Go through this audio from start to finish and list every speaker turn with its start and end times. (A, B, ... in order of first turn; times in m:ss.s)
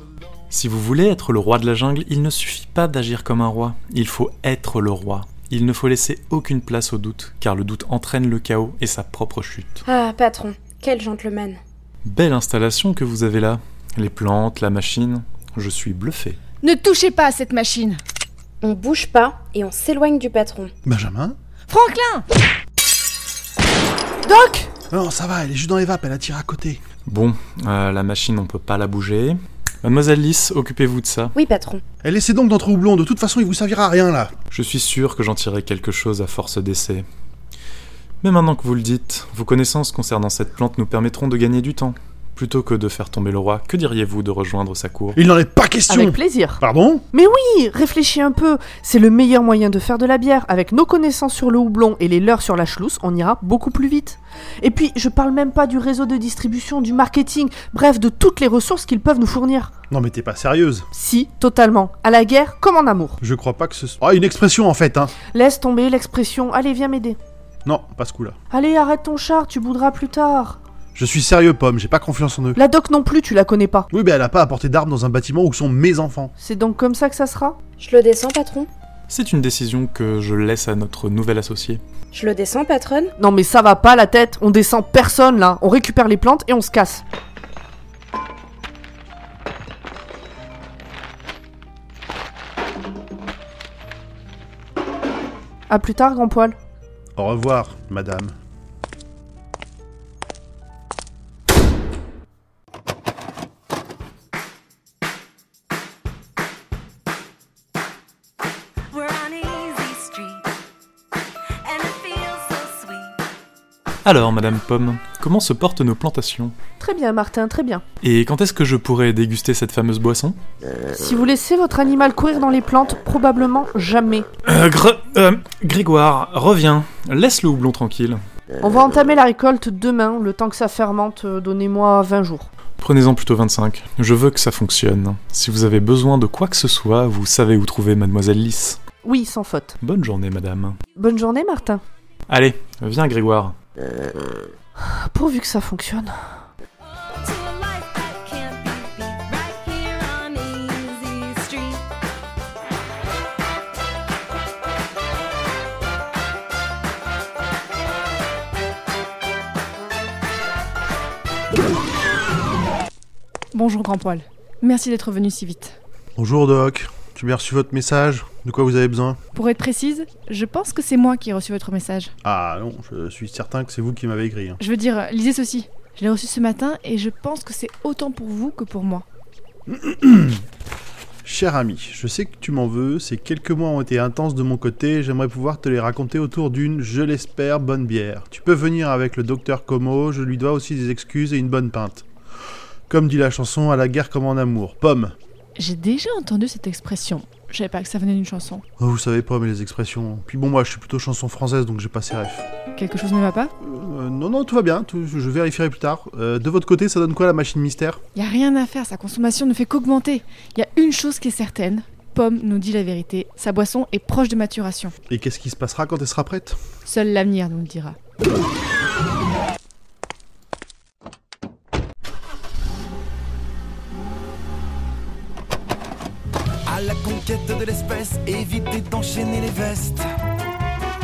0:00.5-0:09.8 A
0:09.8-0:11.6 B
0:12.0-0:16.4 A
0:16.6-0:18.0 C
0:18.6-0:20.7 B
0:20.8-0:21.4 D
0:21.7-0:22.2 C
0:24.2-0:24.7 E
0:24.9-0:26.8 D
0:27.0-0:31.3 A
0:31.3-0:31.8 B
0:32.0-0:34.3 D
0:34.5-0:37.0 A
0:38.2-0:45.2 A
0:45.1-0:47.0 D
0:45.9-0:46.6 E
0:47.1-0:59.7 E
0:59.9-1:00.9 D
1:01.0-1:03.2 E
1:03.2-1:05.2 D
1:05.2-1:07.2 E
1:07.6-1:08.4 D
1:08.5-1:10.6 E
1:10.9-1:12.6 D
1:12.6-1:13.8 E
1:13.9-1:16.3 D
1:16.4-1:17.6 E
1:17.8-1:18.7 B
1:19.1-1:21.8 A
1:22.1-1:23.1 B
1:23.2-1:27.0 E
1:35.7-1:36.6 E
1:37.2-1:38.3 D
1:48.9-1:50.5 F
1:51.6-1:53.2 F
1:54.0-1:56.5 A
1:56.8-1:57.8 E
1:58.0-2:00.4 A
2:01.0-2:04.2 E
2:04.4-2:08.2 A
2:08.6-2:12.5 E
2:12.8-2:18.8 A
2:19.0-2:19.7 E
2:19.8-2:20.8 A
2:21.0-2:21.8 E
2:22.3-2:23.5 A
2:24.8-2:26.1 E
2:27.1-2:31.8 F
2:43.5-2:45.8 C
2:46.2-2:49.2 D
2:49.3-2:52.1 C
2:52.2-2:54.6 D
2:54.6-2:59.0 C
2:59.7-3:00.4 D
3:01.2-3:12.0 D
3:12.9-3:15.1 D
3:15.6-3:18.6 C
3:18.8-3:22.5 D
3:22.8-3:23.5 C
3:23.6-3:28.0 D
3:28.1-3:34.9 C
3:35.1-3:36.6 D
3:36.8-3:38.0 C
3:46.7-3:50.0 G